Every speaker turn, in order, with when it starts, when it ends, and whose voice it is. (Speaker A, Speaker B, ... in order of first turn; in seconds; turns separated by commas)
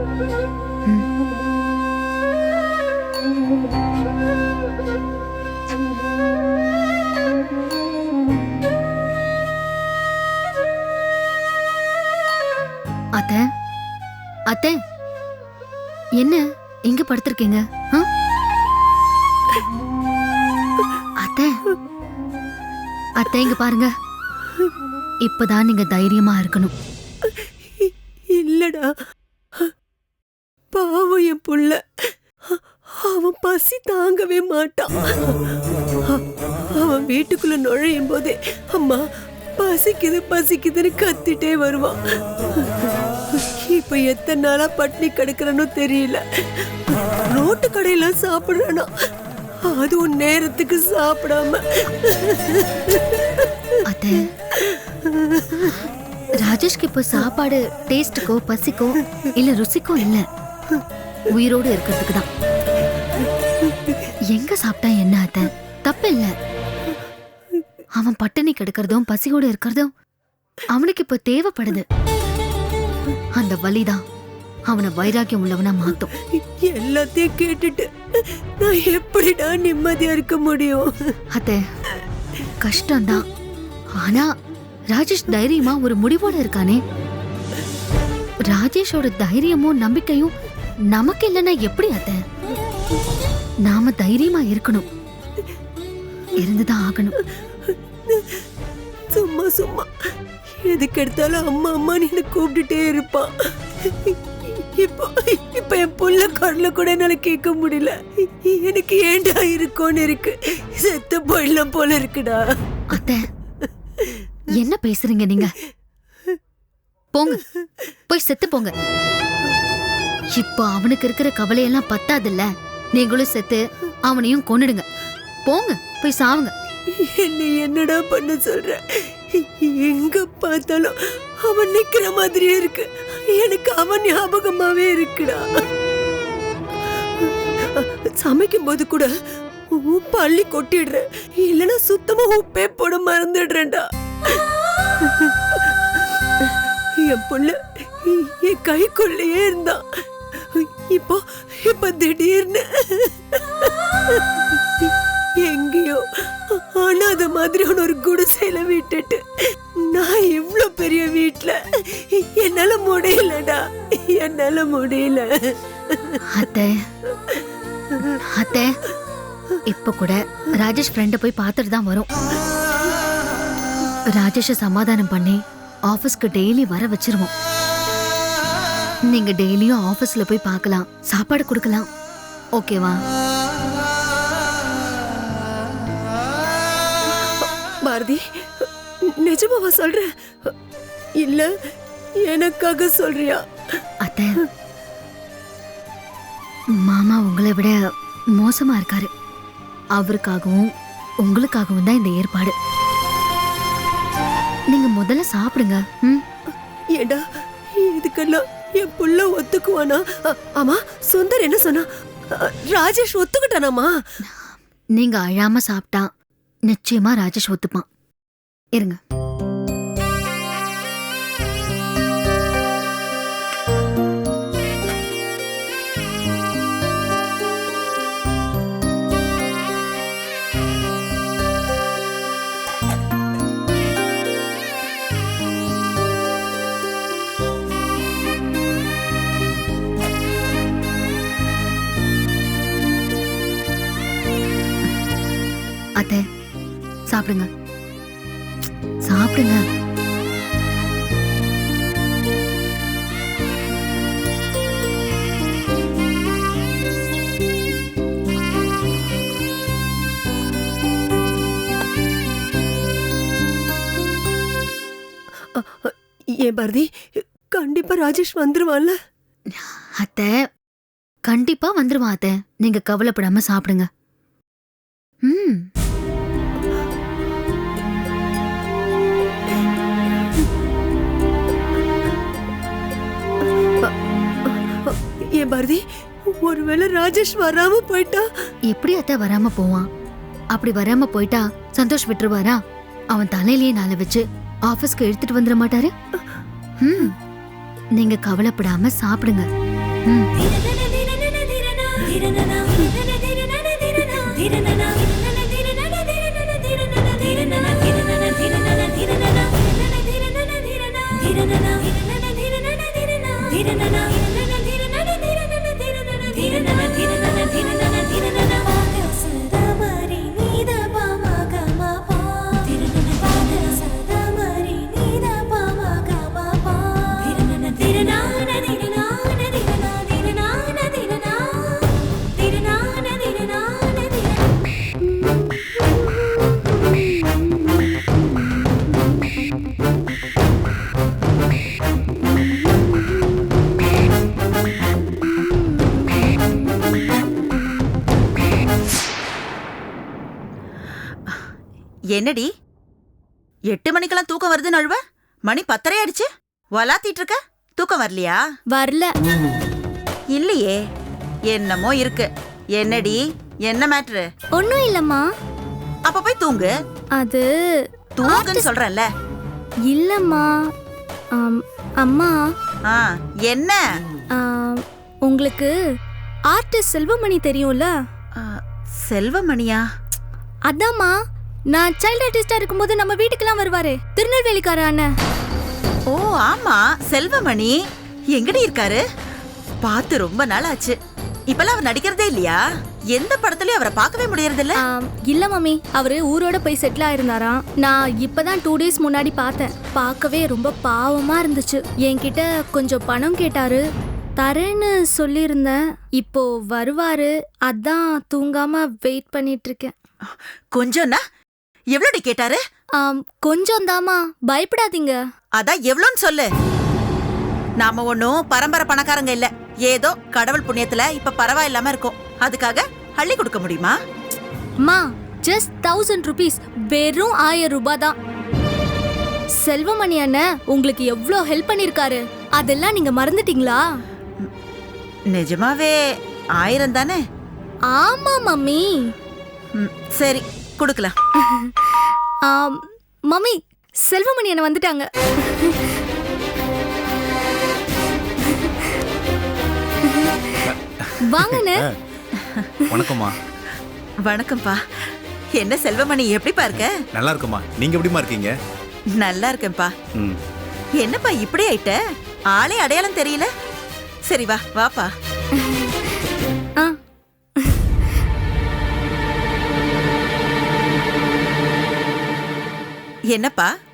Speaker A: 13.2-13.4, Speaker A: 14.5-14.8, Speaker A: 16.2-18.1, Speaker A: 21.2-21.5, Speaker A: 23.2-23.9, Speaker A: 25.2-26.7, Speaker B: 27.8-28.9, Speaker B: 30.7-31.8, Speaker B: 32.5-35.4, Speaker B: 36.8-39.0, Speaker B: 39.6-42.0, Speaker B: 43.6-46.2, Speaker B: 47.3-48.9, Speaker B: 49.7-53.2, Speaker A: 53.9-54.2, Speaker B: 55.3-55.7, Speaker A: 56.4-60.2, Speaker A: 61.3-62.3, Speaker A: 64.3-66.3, Speaker A: 68.0-69.9, Speaker A: 70.8-71.8, Speaker A: 73.4-74.0, Speaker A: 74.7-76.1, Speaker B: 76.4-77.9, Speaker B: 78.6-81.1, Speaker A: 81.3-81.6, Speaker A: 82.6-83.2, Speaker A: 84.0-84.3, Speaker A: 84.9-86.8, Speaker A: 88.5-90.3, Speaker A: 90.9-92.2, Speaker A: 93.7-94.9, Speaker A: 96.4-97.2, Speaker B: 98.1-98.4, Speaker B: 99.1-99.9, Speaker B: 100.6-103.5, Speaker B: 104.8-112.4, Speaker A: 112.9-113.3, Speaker A: 114.5-115.5, Speaker A: 117.1-117.4, Speaker A: 118.1-118.7, Speaker A: 120.4-124.9, Speaker A: 125.5-126.5, Speaker B: 127.1-135.4, Speaker B: 137.8-139.1, Speaker B: 139.7-144.4, Speaker B: 146.5-149.8, Speaker B: 150.6-154.2, Speaker B: 155.4-156.0, Speaker B: 156.6-159.2, Speaker B: 159.9-166.2, Speaker A: 166.4-166.8, Speaker A: 168.3-168.7, Speaker A: 169.7-172.1, Speaker A: 174.1-177.3, Speaker A: 179.1-181.9, Speaker A: 182.6-183.0, Speaker B: 187.8-188.7, Speaker B: 189.2-190.5, Speaker B: 191.2-191.5, Speaker B: 192.2-193.4, Speaker A: 194.1-194.4, Speaker A: 196.8-197.8, Speaker A: 198.4-199.1, Speaker A: 200.0-200.7, Speaker A: 201.2-202.6, Speaker A: 204.7-206.2, Speaker B: 207.0-207.2, Speaker B: 207.8-211.9, Speaker B: 212.4-213.9, Speaker A: 214.3-216.1, Speaker A: 216.7-217.8, Speaker A: 246.0-246.2, Speaker A: 247.1-247.5, Speaker A: 249.1-249.6, Speaker B: 265.6-266.9, Speaker B: 267.5-268.9, Speaker A: 269.5-270.3, Speaker A: 271.3-273.9, Speaker A: 275.2-275.7, Speaker B: 284.5-285.8, Speaker B: 286.4-288.2, Speaker A: 288.7-289.9, Speaker A: 290.5-292.6, Speaker A: 293.1-295.9, Speaker A: 296.8-297.1, Speaker A: 298.0-299.5, Speaker B: 313.6-314.0, Speaker B: 316.1-318.0, Speaker B: 318.7-319.4, Speaker B: 320.1-321.2, Speaker B: 322.4-329.3, Speaker B: 329.8-331.0, Speaker B: 332.4-333.6, Speaker C: 336.9-337.4, Speaker C: 345.3-346.1, Speaker D: 352.1-352.5, Speaker D: 353.7-358.4, Speaker C: 358.7-359.1, Speaker D: 360.3-360.8, Speaker D: 361.5-364.2, Speaker C: 364.6-365.2, Speaker D: 366.1-366.7, Speaker C: 367.2-368.7, Speaker D: 368.2-369.1, Speaker C: 369.9-370.5, Speaker C: 371.3-372.4, Speaker D: 372.9-373.8, Speaker C: 374.4-375.7, Speaker C: 376.5-377.9, Speaker D: 378.4-379.8, Speaker C: 380.7-381.1, Speaker C: 381.7-385.1, Speaker D: 386.1-387.8, Speaker D: 388.4-389.0, Speaker D: 389.8-390.9, Speaker D: 391.5-392.6, Speaker D: 393.2-394.8, Speaker C: 394.8-403.8, Speaker C: 404.4-409.9, Speaker D: 410.8-411.2, Speaker D: 411.9-412.6, Speaker C: 413.0-415.2, Speaker D: 415.6-416.5, Speaker D: 417.8-423.9, Speaker C: 424.8-428.1, Speaker C: 429.6-433.8, Speaker D: 435.3-435.9, Speaker D: 436.6-437.2, Speaker C: 437.9-439.1, Speaker D: 439.8-441.1, Speaker C: 441.4-446.0, Speaker C: 448.5-448.8, Speaker C: 450.1-450.6, Speaker E: 450.7-451.8, Speaker C: 451.3-451.8, Speaker E: 452.9-453.4, Speaker D: 454.3-454.8, Speaker D: 455.6-456.9, Speaker E: 457.2-458.5, Speaker D: 459.2-459.9, Speaker D: 461.0-461.9, Speaker D: 462.5-463.5, Speaker D: 464.3-465.1, Speaker C: 465.6-465.9, Speaker C: 467.6-468.1, Speaker D: 473.3-473.7